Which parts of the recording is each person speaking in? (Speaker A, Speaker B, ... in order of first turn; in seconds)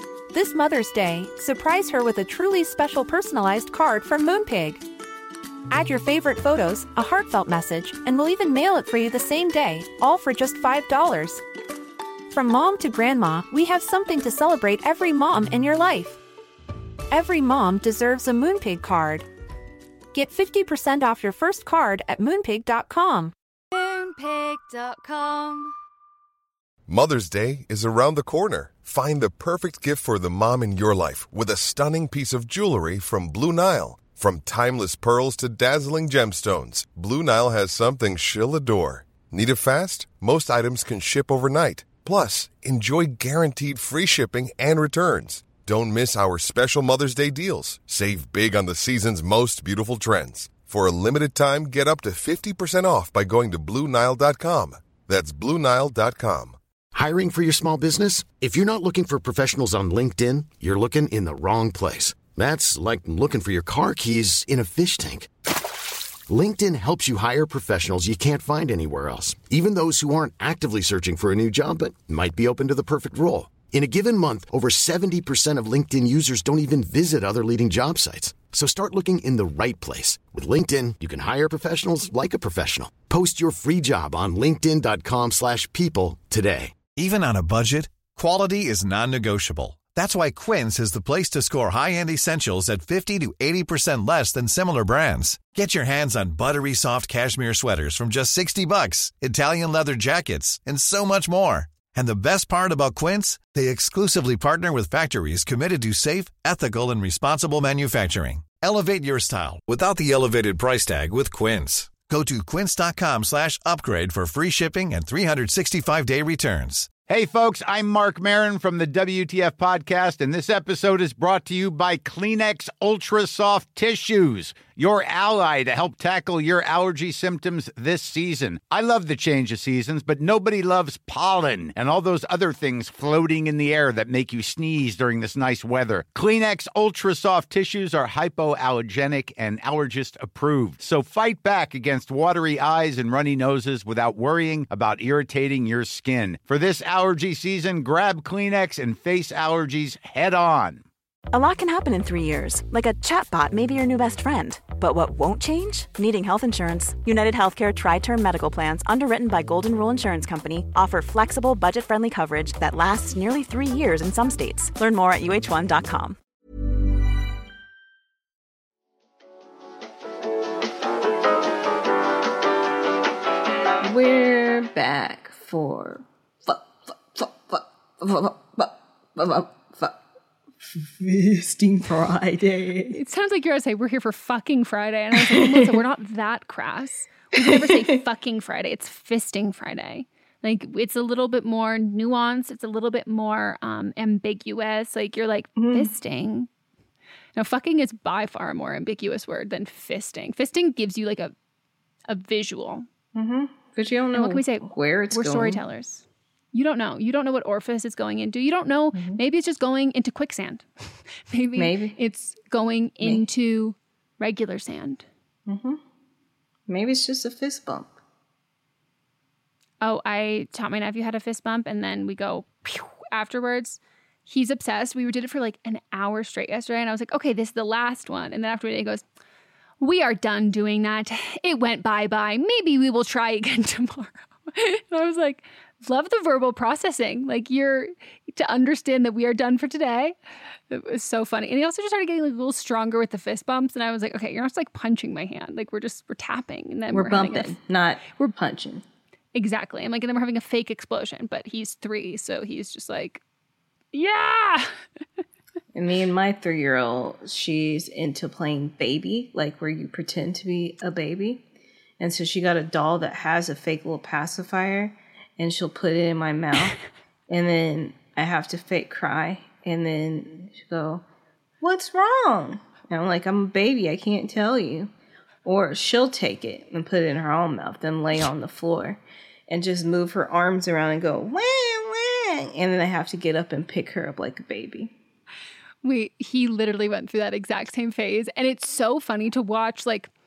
Speaker A: 0.3-4.8, 5.7-11.4, 12.3-16.2, 17.1-19.3, 20.1-23.3
Speaker B: 23.7-25.7
Speaker C: 26.9-56.6
Speaker D: 56.9-65.3, 66.3-86.8
Speaker E: 87.0-116.9
Speaker F: 117.1-150.8
Speaker G: 151.3-166.2
Speaker H: 173.8-180.0, 180.7-183.0, 185.1-185.7, 187.4-187.9, 195.6-195.9, 203.1-205.6, 208.9-209.2, 211.6-212.0, 215.5-215.8, 216.7-217.9, 246.9-248.8, 255.7-261.4, 262.0-266.8, 267.3-271.0, 271.6-274.9, 275.4-284.9
Speaker I: 182.9-196.5, 197.3-201.3, 202.1-202.9, 204.1-215.1, 219.8-229.0, 229.8-240.2, 240.7-247.6, 249.3-253.2, 253.9-254.7, 285.8-290.1